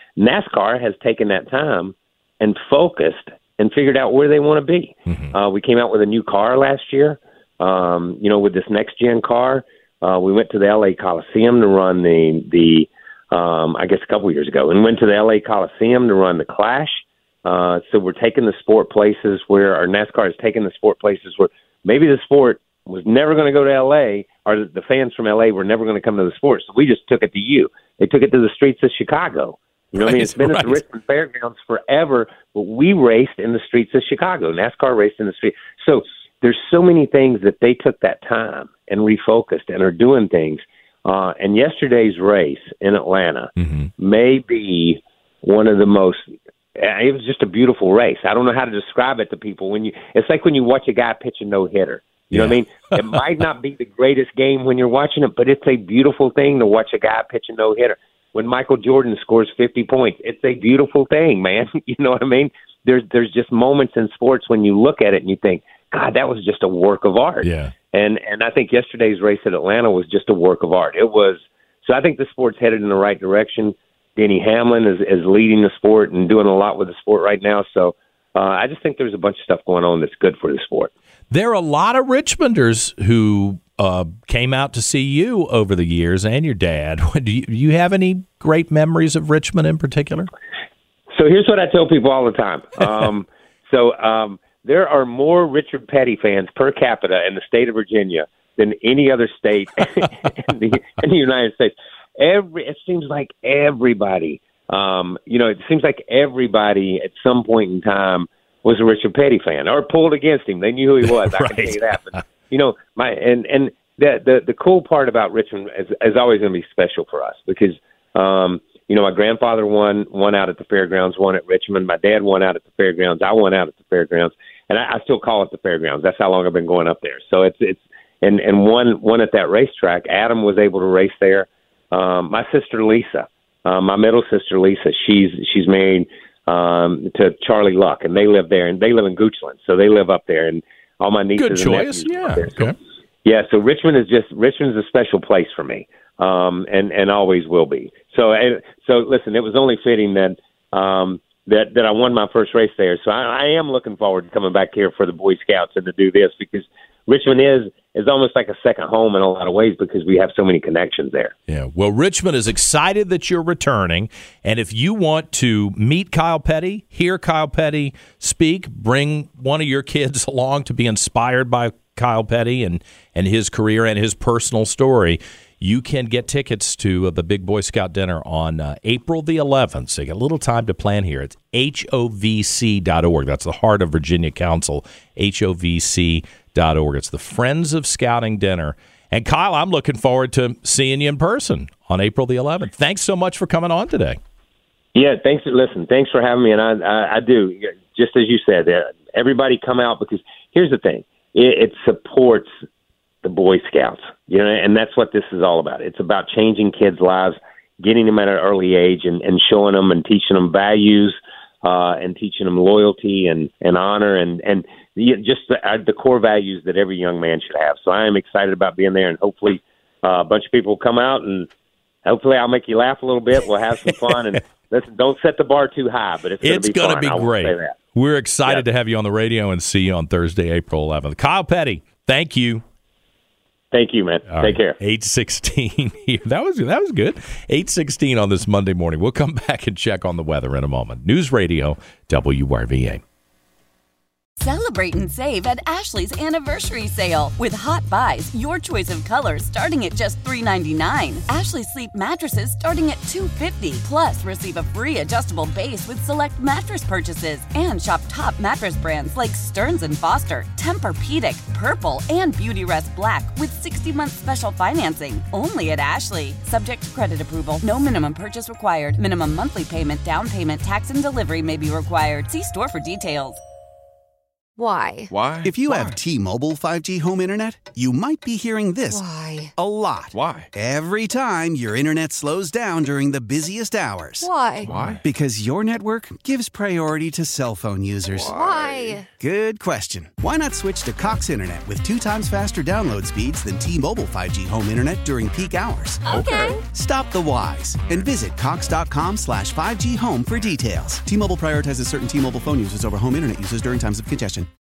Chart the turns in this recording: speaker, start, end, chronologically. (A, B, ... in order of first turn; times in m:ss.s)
0:00.2-1:20.9 A
0:05.1-0:05.3 B
0:30.0-0:30.8 B
0:43.6-0:43.9 B
0:52.3-0:53.1 B
1:07.4-1:07.8 B
1:21.3-1:30.3 B
1:31.1-2:22.7 A
1:51.2-1:52.3 B
2:21.4-2:22.8 B
2:23.2-2:41.3 A
2:41.5-3:14.2 B
3:15.0-3:22.5 A
3:23.2-3:41.5 A
3:42.0-3:47.8 A
3:46.4-3:52.6 B
3:53.7-3:54.8 A
3:54.3-4:03.0 B
4:04.4-4:33.4 C
4:34.6-4:35.1 D
4:35.1-4:36.0 E
4:35.4-5:04.5 F
4:38.9-4:39.5 D
4:40.1-4:40.5 E
4:44.2-4:44.7 D
4:44.6-4:45.0 E
4:48.2-4:49.0 E
4:48.3-4:49.1 D
4:56.1-4:56.5 E
4:56.3-4:56.6 D